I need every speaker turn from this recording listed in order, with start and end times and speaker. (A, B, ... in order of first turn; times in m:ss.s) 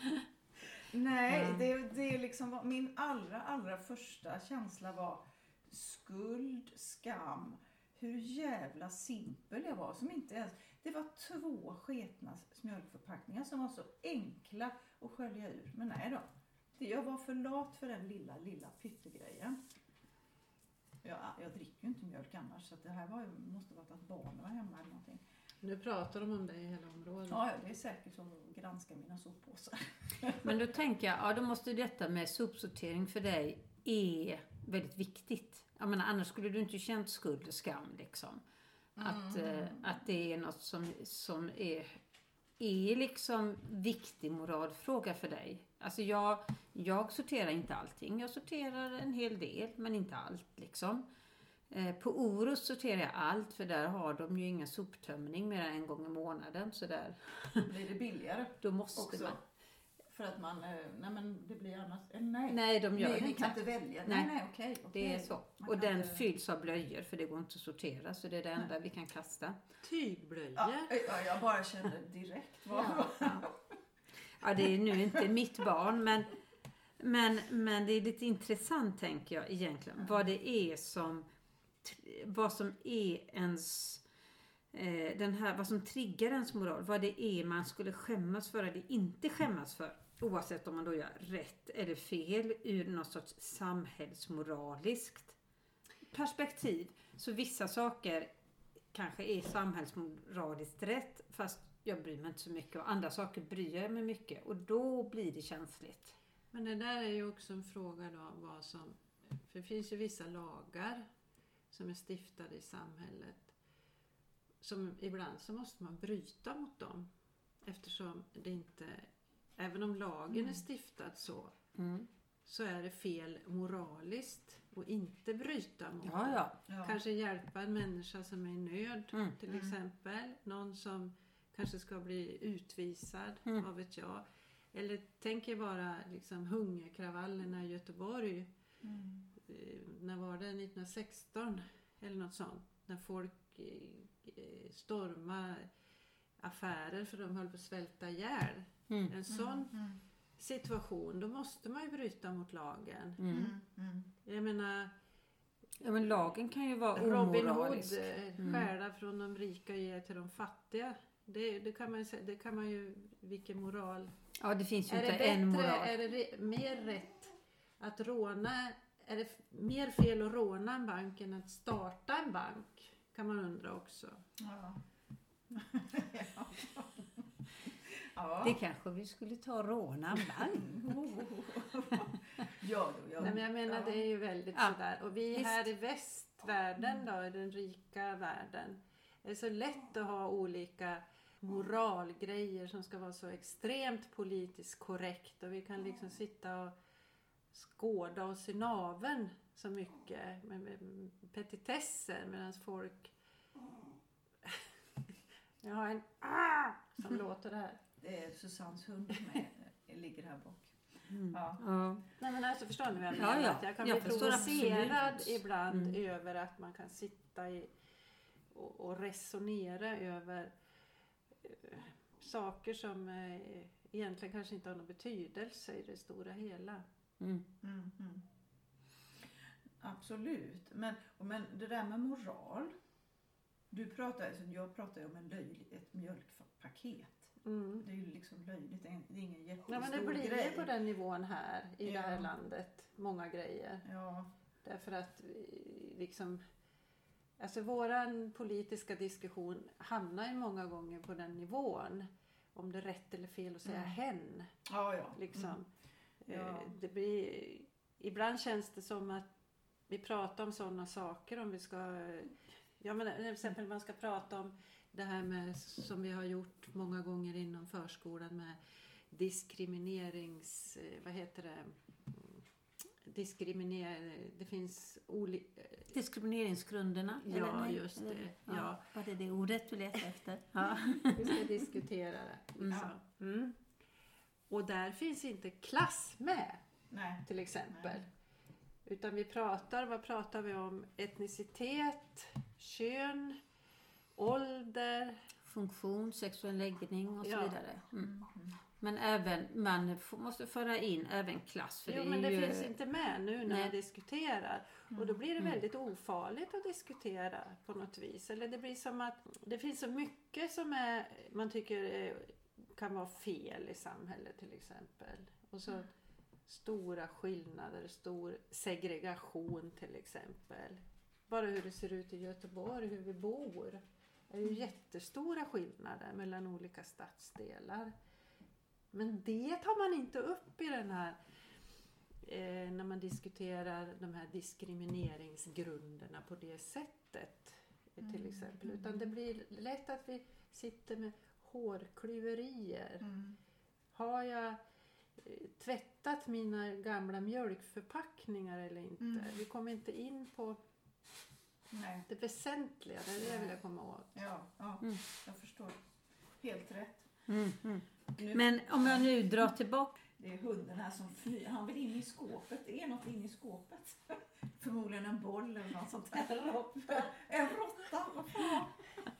0:00.8-0:19.6 A
0:01.3-0:01.7 B
0:21.0-0:25.2 A
0:25.6-0:27.4 C
0:27.3-0:30.5 A
0:30.4-0:38.4 B
0:39.0-0:39.8 A
0:39.0-0:42.0 B
0:42.6-0:51.0 B
0:51.7-0:57.7 B
0:57.6-0:59.4 A
0:58.6-0:59.4 B
1:00.1-1:06.2 A
1:02.5-1:04.3 B
1:04.9-1:09.6 B
1:09.8-1:11.1 C
1:10.6-1:13.6 A
1:12.7-1:13.5 B
1:14.4-1:16.3 B
1:17.0-1:21.3 B
1:20.0-1:20.2 A
1:21.8-1:24.0 B
1:24.7-1:35.4 B
1:36.1-1:38.3 B
1:38.9-1:46.2 B
1:46.5-1:51.1 C
1:51.7-1:53.5 C
1:54.6-1:57.1 C
1:57.6-2:01.5 C
2:00.3-2:00.6 A
2:01.8-2:02.1 B
2:02.5-2:18.5 C
2:06.0-2:06.6 B
2:06.7-2:07.0 A
2:09.5-2:09.8 A
2:18.8-2:19.3 A
2:19.4-2:25.7 C
2:26.4-2:33.3 C
2:29.3-2:30.0 A
2:33.2-2:33.5 B
2:33.3-2:34.1 A
2:34.2-2:34.9 C
2:35.8-2:38.7 B
2:36.9-2:44.1 C
2:44.4-2:45.9 B
2:44.9-2:54.2 C
2:54.4-2:54.8 A
2:55.5-2:58.6 A
2:58.4-3:01.0 B
3:00.3-3:04.0 A
3:03.2-3:16.7 C
3:05.3-3:05.7 B
3:17.5-3:23.1 C
3:24.4-3:24.7 C
3:25.6-3:27.8 C
3:28.0-3:31.6 A
3:31.1-3:32.0 B
3:32.2-3:37.7 C
3:33.2-3:36.0 B
3:38.5-3:40.5 C
3:41.4-3:46.8 C
3:47.2-3:47.5 B
3:47.6-3:48.2 A
3:49.8-3:52.8 A
3:53.7-4:00.7 A
3:57.4-3:57.8 C
3:59.7-4:03.8 C
4:01.8-4:02.3 A
4:03.8-4:04.3 A
4:04.6-4:06.4 C
4:07.4-4:14.5 C
4:13.7-4:14.0 A
4:14.7-4:15.6 A
4:15.2-4:15.7 C
4:16.2-4:19.3 C
4:16.3-4:16.7 A
4:19.9-4:28.6 C
4:29.1-4:32.4 C
4:33.0-4:35.9 C
4:35.9-4:41.4 B
4:37.2-4:38.8 C
4:41.0-4:43.6 C
4:42.6-4:42.9 B
4:44.5-4:46.6 C
4:46.9-4:48.0 A
4:47.2-4:48.1 C
4:48.8-4:53.4 C
4:54.2-4:55.3 C
4:55.4-4:58.1 B
4:57.2-4:57.6 C
4:58.0-4:58.6 A
4:58.8-5:02.7 B
5:01.9-5:15.9 C
5:03.5-5:03.7 B
5:16.5-5:27.9 C
5:28.9-5:31.2 C
5:32.2-5:43.1 C
5:38.0-5:38.9 A
5:43.0-5:43.4 A
5:43.9-5:44.6 C
5:45.2-5:50.6 C
5:49.0-5:49.4 A
5:51.7-5:52.1 A
5:52.1-5:54.2 C
5:53.2-5:53.5 A
5:54.2-5:55.8 A
5:56.4-5:57.1 A
5:57.3-5:59.9 B
5:58.2-5:59.1 A
6:00.2-6:08.9 A